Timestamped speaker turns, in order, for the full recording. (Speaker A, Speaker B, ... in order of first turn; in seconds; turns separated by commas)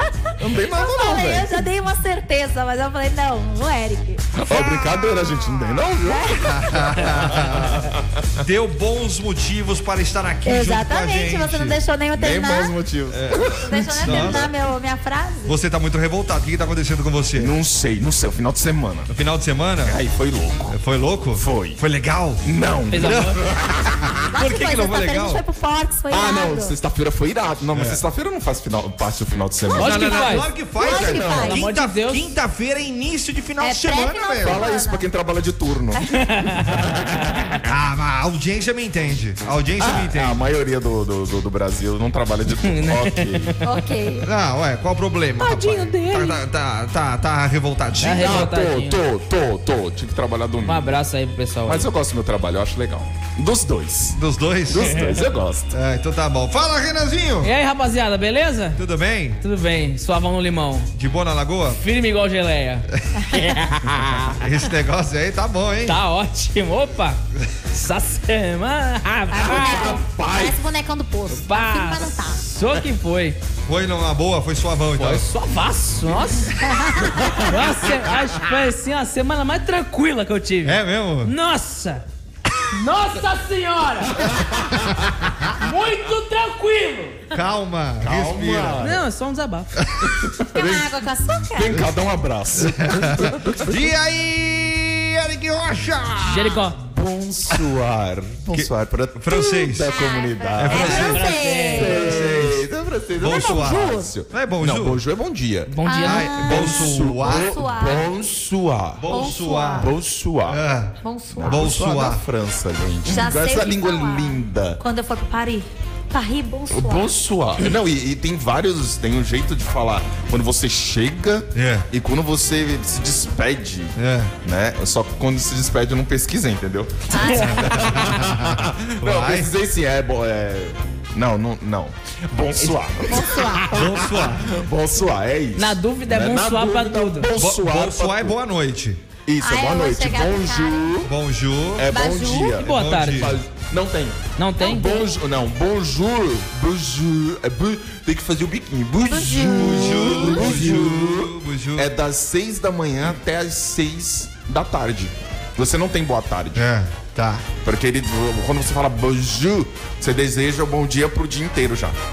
Speaker A: 0.4-1.6, Speaker B: 0.7-4.2, Speaker A: 4.3-8.0, Speaker C: 4.5-5.1, Speaker B: 6.0-6.7, Speaker C: 6.5-11.8, Speaker B: 10.5-12.7, Speaker A: 12.2-14.5, Speaker C: 13.1-14.4, Speaker B: 13.6-15.6, Speaker C: 15.4-17.6, Speaker A: 17.4-19.1, Speaker C: 19.1-20.0, Speaker A: 19.8-20.8, Speaker C: 20.7-22.4, Speaker A: 21.4-21.8, Speaker A: 22.4-24.1, Speaker D: 22.9-23.4, Speaker C: 23.0-23.4, Speaker C: 24.3-25.4, Speaker B: 24.3-26.8, Speaker A: 26.1-30.1, Speaker C: 27.7-28.0, Speaker B: 29.7-31.6, Speaker D: 29.8-30.5, Speaker C: 29.8-34.6, Speaker A: 30.8-31.5, Speaker D: 31.3-32.3, Speaker B: 33.6-35.1, Speaker A: 34.4-37.6, Speaker D: 36.2-36.7, Speaker C: 37.6-40.4, Speaker A: 39.8-43.6, Speaker D: 42.6-43.6, Speaker B: 43.6-44.3, Speaker C: 44.2-48.5, Speaker D: 45.4-46.4, Speaker D: 48.0-49.0, Speaker A: 48.2-51.0, Speaker D: 50.6-51.9, Speaker A: 51.7-55.7, Speaker C: 54.1-55.0, Speaker D: 54.9-55.3, Speaker C: 55.7-57.5, Speaker D: 57.4-58.8, Speaker C: 58.8-59.4, Speaker D: 59.4-60.9, Speaker C: 61.0-61.8, Speaker D: 61.8-64.4, Speaker C: 63.9-66.0, Speaker D: 65.9-67.2, Speaker D: 67.7-70.0, Speaker B: 69.3-72.4, Speaker A: 69.4-70.6, Speaker D: 71.4-73.4, Speaker C: 73.7-75.2, Speaker D: 75.0-76.5, Speaker B: 76.6-77.3, Speaker D: 77.3-82.0, Speaker C: 80.6-81.3, Speaker D: 82.7-84.3, Speaker A: 84.2-84.7, Speaker C: 84.8-85.3, Speaker D: 85.5-87.2, Speaker C: 87.3-88.9, Speaker A: 88.0-89.0, Speaker D: 88.8-89.7, Speaker C: 89.8-90.1, Speaker A: 90.1-90.9, Speaker B: 90.5-91.8, Speaker A: 91.5-93.8, Speaker C: 92.5-96.7, Speaker D: 96.2-96.8, Speaker A: 96.8-105.7, Speaker C: 98.5-99.9, Speaker B: 99.9-102.0, Speaker C: 100.5-102.6, Speaker D: 100.8-102.0, Speaker C: 103.2-105.0, Speaker D: 105.7-106.3, Speaker B: 105.8-108.1, Speaker C: 106.0-107.6, Speaker A: 106.3-109.1, Speaker C: 109.0-109.9, Speaker B: 109.1-109.9, Speaker A: 109.7-110.6, Speaker C: 110.5-112.2, Speaker B: 111.0-111.7, Speaker A: 111.4-114.8, Speaker B: 113.0-117.1, Speaker A: 116.7-138.4, Speaker C: 121.5-121.9, Speaker C: 124.0-124.3, Speaker B: 127.1-127.5, Speaker D: 127.3-127.5, Speaker C: 127.3-129.5, Speaker D: 132.6-132.8, Speaker B: 133.1-133.7, Speaker C: 133.7-134.6, Speaker D: 135.6-137.3, Speaker C: 137.4-139.0, Speaker A: 139.3-141.1, Speaker B: 139.4-140.9, Speaker C: 141.0-141.9, Speaker A: 141.8-156.7, Speaker B: 141.9-142.6, Speaker D: 142.6-143.3, Speaker C: 142.6-143.4, Speaker D: 144.4-145.0, Speaker B: 149.0-150.8, Speaker C: 149.5-151.9, Speaker C: 156.6-157.5, Speaker A: 157.6-162.0